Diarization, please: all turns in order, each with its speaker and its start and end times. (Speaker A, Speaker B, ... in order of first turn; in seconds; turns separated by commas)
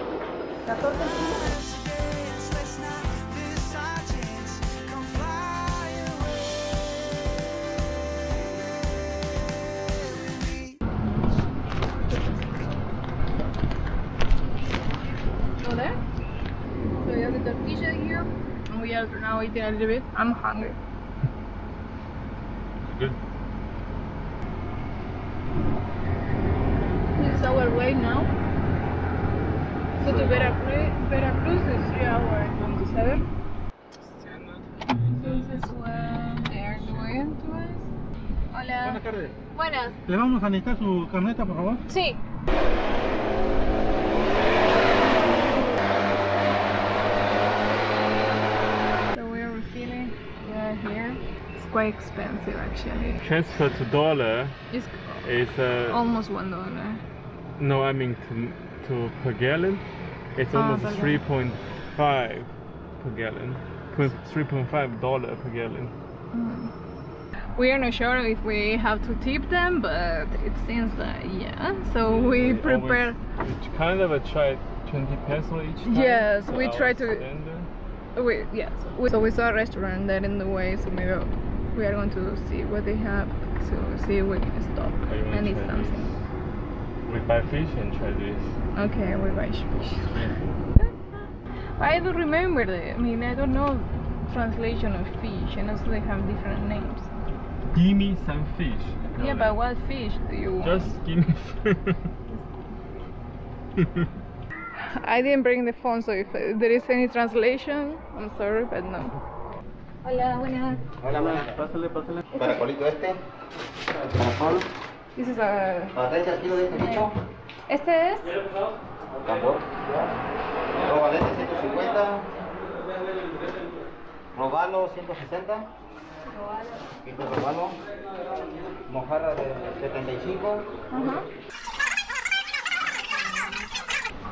Speaker A: 0.7-1.1, Speaker B: 0.7-6.8, Speaker B: 8.3-8.7, Speaker B: 9.5-10.8, Speaker A: 15.6-16.0, Speaker A: 17.0-20.8, Speaker C: 22.9-23.2, Speaker A: 27.2-28.3, Speaker C: 30.0-30.5, Speaker A: 30.0-33.2, Speaker C: 34.0-37.1, Speaker A: 35.0-37.9, Speaker A: 38.5-39.0, Speaker D: 38.8-39.4, Speaker A: 39.5-40.0, Speaker D: 40.0-41.8, Speaker A: 41.9-42.2, Speaker A: 49.1-53.2, Speaker C: 53.2-54.6, Speaker A: 54.7-55.2, Speaker C: 55.2-56.0, Speaker A: 55.9-57.0, Speaker C: 57.6-59.8, Speaker C: 60.4-66.0, Speaker A: 60.5-61.2, Speaker A: 66.3-66.7, Speaker A: 67.5-73.2, Speaker C: 72.0-77.7, Speaker A: 75.8-77.2, Speaker A: 78.2-86.1, Speaker C: 85.1-86.2, Speaker C: 87.0-88.5, Speaker A: 88.8-90.2, Speaker A: 91.8-97.1, Speaker C: 97.7-99.5, Speaker A: 99.2-100.9, Speaker C: 100.6-102.0, Speaker C: 103.8-104.1, Speaker A: 104.8-109.2, Speaker A: 110.0-110.9, Speaker E: 111.0-113.2, Speaker E: 114.2-114.7, Speaker A: 115.2-116.0, Speaker E: 116.0-117.1, Speaker A: 116.7-117.0, Speaker A: 117.7-118.3, Speaker E: 119.2-120.1, Speaker E: 120.8-122.3, Speaker E: 124.3-125.7, Speaker E: 127.0-127.8, Speaker E: 128.9-130.7, Speaker A: 130.9-131.2